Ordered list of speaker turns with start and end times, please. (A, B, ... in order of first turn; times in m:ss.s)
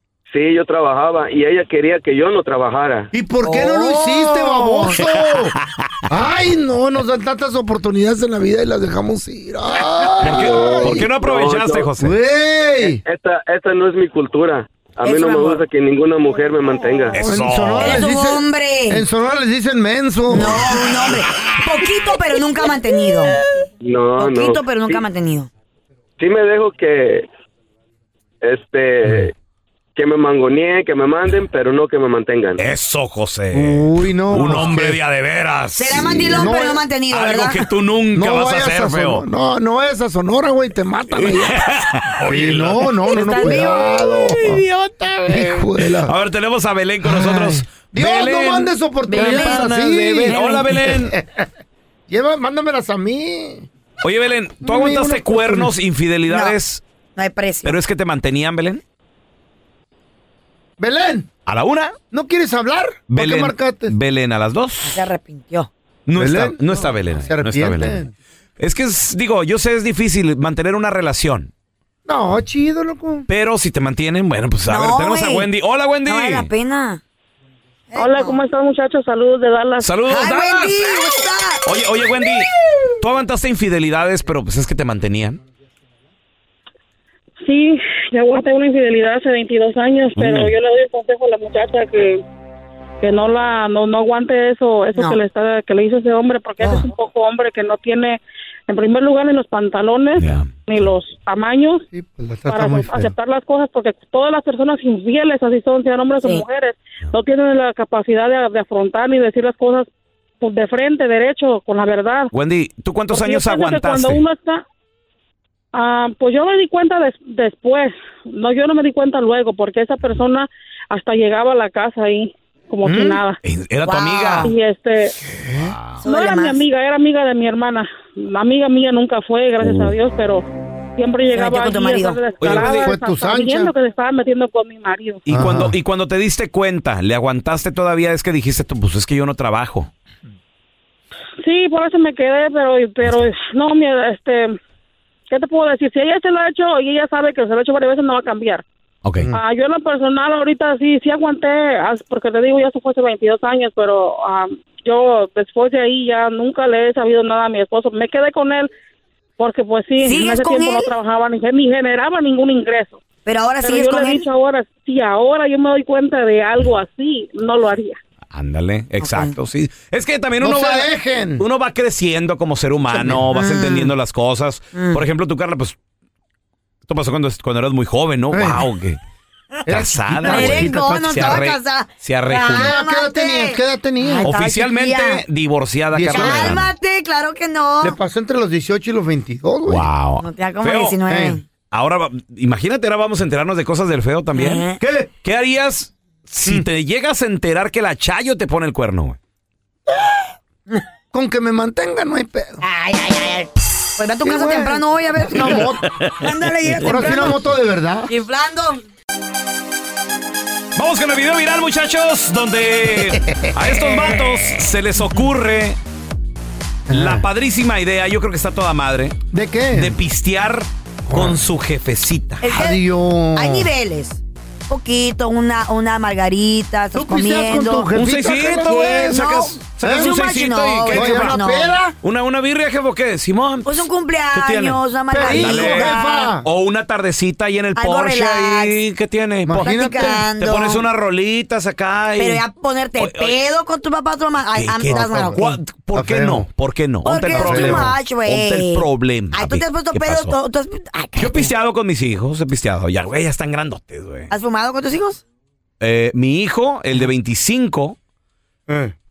0:00.3-0:03.1 A
0:03.1-0:05.5 B
0:03.4-0:05.0 C
0:06.1-0:11.1 B
0:10.2-0:12.2 D
0:10.3-0:11.9 A
0:12.0-0:13.0 B
0:12.8-0:17.2 A
0:15.0-0:15.6 C
0:17.2-0:18.0 D
0:17.2-0:20.8 B
0:17.7-0:19.1 C
0:20.3-0:23.4 C
0:23.8-0:25.0 A
0:24.2-0:25.5 C
0:26.2-0:27.3 A
0:28.4-0:29.3 A
0:30.0-0:32.6 A
0:32.6-0:36.5 D
0:33.5-0:35.0 B
0:35.8-0:37.7 C
0:35.9-0:36.9 B
0:37.1-0:39.2 D
0:38.2-0:41.6 B
0:41.2-0:43.6 D
0:42.2-0:44.6 B
0:43.0-0:45.8 C
0:45.3-0:46.1 B
0:46.0-0:51.2 D
0:47.0-0:51.4 B
0:49.1-0:50.9 C
0:52.1-0:53.7 B
0:54.0-0:56.8 D
0:54.6-0:55.7 B
0:56.3-0:56.6 C
0:57.2-0:57.8 C
0:57.6-0:58.8 D
1:00.8-1:01.3 B
1:01.5-1:02.0 D
1:02.1-1:04.0 B
1:03.1-1:05.0 D
1:04.8-1:05.7 C
1:06.1-1:08.0 D
1:06.2-1:08.1 B
1:08.6-1:11.5 D
1:12.1-1:13.3 B
1:13.3-1:16.5 D
1:14.7-1:15.5 C
1:16.0-1:17.0 C
1:17.9-1:18.4 C
1:18.0-1:20.0 E
1:19.8-1:22.5 D
1:20.0-1:21.7 C
1:23.0-1:25.4 D
1:27.4-1:32.2 E
1:30.2-1:30.5 D
1:33.0-1:41.8 E
1:36.6-1:36.9 C
1:40.2-1:40.5 D
1:41.9-1:43.2 B
1:42.5-1:49.9 E
1:50.4-1:52.3 E
1:52.3-1:54.2 D
1:53.1-1:54.6 E
1:55.7-2:03.4 E
2:03.4-2:04.5 D
2:03.8-2:04.5 C
2:04.4-2:05.2 E
2:05.3-2:05.8 B
2:05.7-2:06.0 D
2:06.0-2:06.6 C
2:06.0-2:10.5 E
2:11.0-2:15.2 E
2:11.3-2:12.7 C
2:12.4-2:12.9 D
2:12.6-2:13.7 B
2:15.2-2:19.9 D
2:15.3-2:15.8 B
2:21.4-2:24.6 E
2:25.3-2:28.6 E
2:29.0-2:29.3 D
2:29.3-2:38.7 E
2:39.4-2:43.0 E
2:40.0-2:40.9 C
2:43.2-2:44.3 C
2:43.6-2:48.0 E
2:48.3-2:50.9 D
2:49.0-2:49.4 C
2:50.4-2:51.4 B
2:51.4-2:55.8 D
2:52.9-2:53.2 B
2:53.3-2:54.0 C
2:54.7-2:55.0 C
2:56.9-2:59.0 D
2:58.3-2:58.6 B
2:59.7-3:01.5 B
2:59.7-3:02.8 D
3:00.2-3:05.2 C
3:02.5-3:04.3 B
3:04.2-3:06.7 D
3:05.9-3:06.6 B
3:06.1-3:08.0 C
3:07.8-3:09.9 B
3:09.7-3:11.0 D
3:10.2-3:11.4 C
3:11.1-3:11.4 B
3:11.7-3:19.2 D
3:14.3-3:14.8 C
3:14.8-3:15.1 B
3:21.1-3:22.6 B
3:22.6-3:27.5 C
3:24.2-3:25.9 B
3:26.8-3:28.1 B
3:28.1-3:28.8 C
3:30.8-3:35.8 D
3:36.9-3:37.3 B
3:36.9-3:39.2 D
3:39.3-3:40.0 B
3:39.7-3:42.4 D
3:41.1-3:41.4 B
3:42.4-3:51.8 C
3:42.5-3:43.7 B
3:46.9-3:49.2 B
3:47.9-3:51.4 D
3:49.8-3:50.2 B
3:50.9-3:51.9 B
3:52.0-4:02.4 D
3:53.6-3:56.4 C
3:55.1-3:56.5 B
3:57.8-3:58.8 C
3:59.4-4:00.3 B
3:59.6-4:00.9 C
4:02.2-4:05.5 C
4:03.0-4:03.4 D
4:04.6-4:10.4 D
4:04.9-4:06.5 B
4:07.0-4:11.5 C
4:07.3-4:07.9 B
4:11.2-4:14.3 D
4:14.3-4:15.2 C
4:15.8-4:18.0 D
4:18.7-4:19.0 B